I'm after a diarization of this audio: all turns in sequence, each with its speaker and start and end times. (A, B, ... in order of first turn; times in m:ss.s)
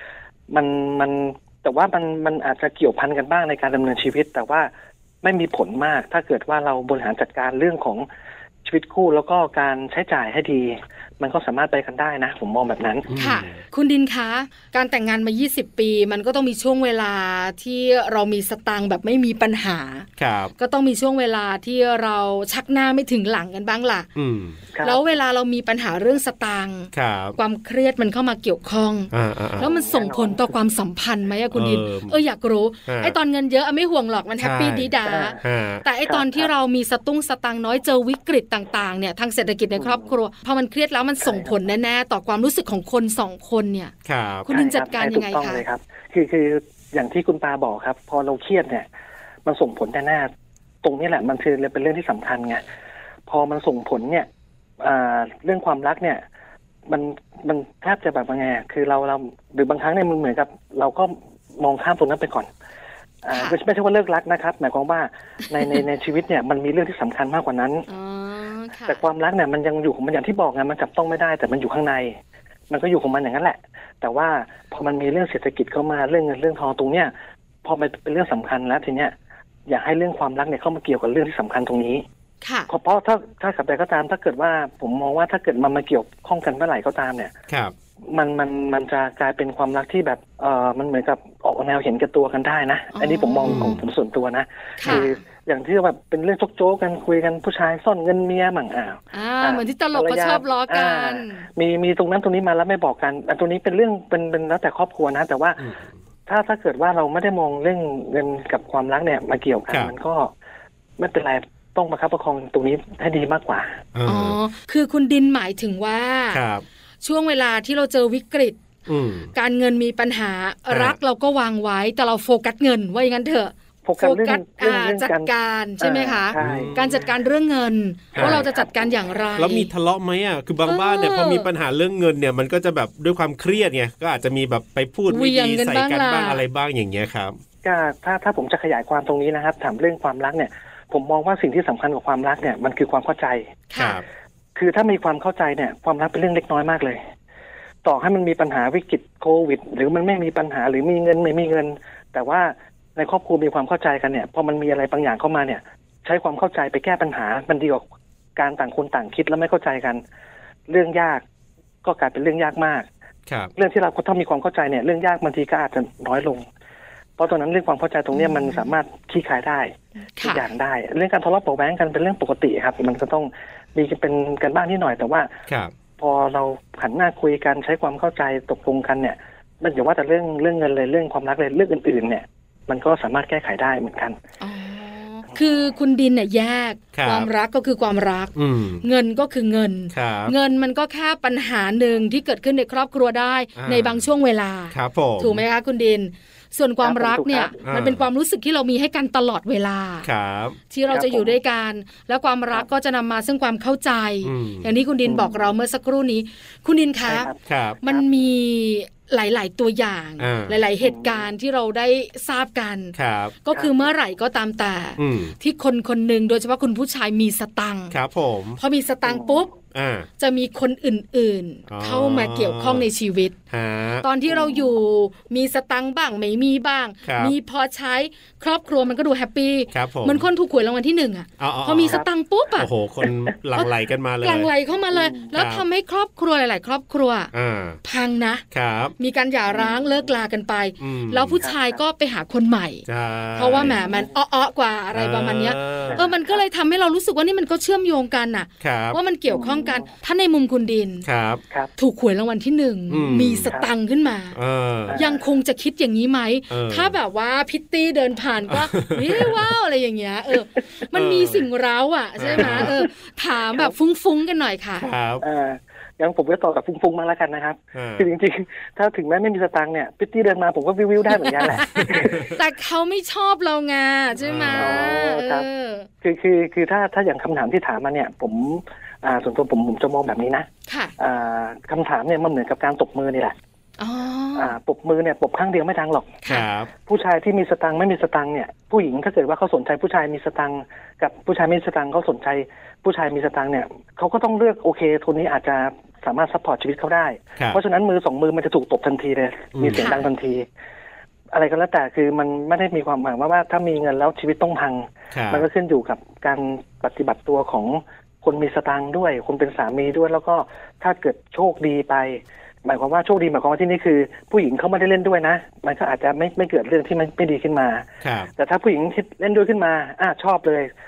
0:00.5-0:04.7 A
0:05.2-0:08.1 A
0:08.6-0:13.1 A
0:13.1-0:13.6 B
0:13.2-0:20.1 C
0:20.2-0:20.5 B
0:20.6-0:24.1 C
0:24.2-0:24.6 B
0:24.7-0:25.0 A
0:24.8-0:43.9 C
0:26.9-0:27.4 B
0:29.1-0:29.7 B
0:29.6-0:30.6 A
0:31.5-0:32.2 B
0:32.9-0:33.2 B
0:34.4-0:35.8 B
0:35.0-0:35.4 A
0:36.1-0:36.5 A
0:39.8-0:40.1 A
0:41.2-0:41.5 A
0:44.1-0:44.5 B
0:44.5-0:45.6 C
0:44.5-0:48.9 A
0:49.4-0:50.3 A
0:50.8-0:52.6 A
0:53.3-0:54.3 A
0:54.8-0:56.2 A
0:56.9-1:02.5 A
1:03.2-1:07.9 A
1:03.3-1:03.6 C
1:07.9-1:09.0 C
1:08.9-1:12.2 A
1:12.7-1:17.1 A
1:17.6-1:19.1 A
1:19.7-1:22.0 A
1:22.4-1:22.7 C
1:22.7-1:27.3 A
1:27.5-1:27.8 B
1:28.1-1:45.6 A
1:32.9-1:33.8 C
1:33.4-1:33.8 B
1:34.8-1:35.1 C
1:39.1-1:41.5 C
1:45.6-1:45.9 B
1:46.3-1:50.3 A
1:51.0-1:53.8 A
1:53.9-1:54.4 B
1:54.1-1:56.4 C
1:56.3-1:56.6 B
1:57.0-1:58.6 C
1:58.9-1:59.3 B
1:59.3-2:09.7 C
2:00.7-2:01.0 B
2:03.8-2:07.0 A
2:06.4-2:06.8 B
2:08.2-2:08.4 B
2:08.2-2:08.7 A
2:09.4-2:17.3 B
2:10.7-2:11.5 C
2:15.1-2:16.4 C
2:17.6-2:23.6 A
2:23.7-2:24.0 C
2:23.8-2:24.0 B
2:24.6-2:27.0 A
2:27.8-2:37.8 A
2:38.4-2:40.0 A
2:40.7-2:41.2 A
2:41.8-2:42.9 A
2:43.6-2:46.5 A
2:47.2-2:55.3 A
2:48.1-2:48.7 C
2:50.2-2:50.5 C
2:55.5-2:55.7 B
2:56.0-3:04.2 A
3:04.4-3:20.1 C
3:06.9-3:07.3 B
3:08.4-3:08.9 B
3:09.9-3:10.3 B
3:13.6-3:14.1 B
3:14.7-3:15.4 B
3:16.8-3:17.6 A
3:17.6-3:18.0 B
3:20.0-3:20.6 B
3:20.7-3:27.3 C
3:20.9-3:21.4 A
3:24.2-3:24.7 B
3:25.0-3:25.4 A
3:27.1-3:28.0 A
3:27.4-3:27.8 B
3:27.8-3:38.0 C
3:30.2-3:30.6 B
3:30.8-3:31.3 A
3:33.0-3:33.4 B
3:33.6-3:33.9 A
3:35.0-3:35.4 B
3:37.9-3:38.6 B
3:38.6-3:39.5 C
3:39.0-3:39.4 A
3:39.7-3:40.1 B
3:40.2-3:43.4 C
3:41.7-3:42.9 B
3:43.5-3:44.1 B
3:44.0-3:52.7 C
3:44.3-3:44.7 A
3:47.0-3:47.4 B
3:49.7-3:50.3 B
3:51.4-3:54.5 B
3:54.2-3:57.3 C
3:54.9-3:55.3 A
3:55.3-3:55.6 B
3:57.3-3:57.8 B
3:57.8-3:58.4 C
3:58.5-3:58.9 B
3:59.0-4:11.0 C
3:59.5-3:59.8 A
4:00.8-4:01.4 B
4:01.4-4:01.8 A
4:02.9-4:03.8 B
4:03.5-4:04.1 A
4:04.9-4:06.0 B
4:05.9-4:06.4 A
4:08.6-4:09.0 B
4:09.3-4:09.8 A
4:11.0-4:11.4 B
4:11.8-4:14.4 C
4:12.9-4:13.5 B
4:14.3-4:15.0 B
4:14.9-4:15.2 A
4:14.9-4:24.9 C
4:16.5-4:17.0 B
4:18.5-4:19.4 B
4:20.9-4:21.5 B
4:22.2-4:22.8 B
4:22.4-4:22.8 A
4:24.8-4:25.2 B
4:25.2-4:32.3 A
4:27.7-4:28.1 B
4:31.1-4:35.9 C
4:34.2-4:35.0 B
4:34.6-4:35.5 A
4:36.0-4:43.4 A
4:40.7-4:40.9 C
4:43.8-4:44.6 C
4:44.4-4:46.2 A
4:46.3-4:46.7 B
4:46.8-5:00.5 A
4:59.6-5:00.0 B
4:59.7-5:00.1 C
5:01.3-5:20.7 A
5:05.1-5:05.5 B
5:18.0-5:18.3 B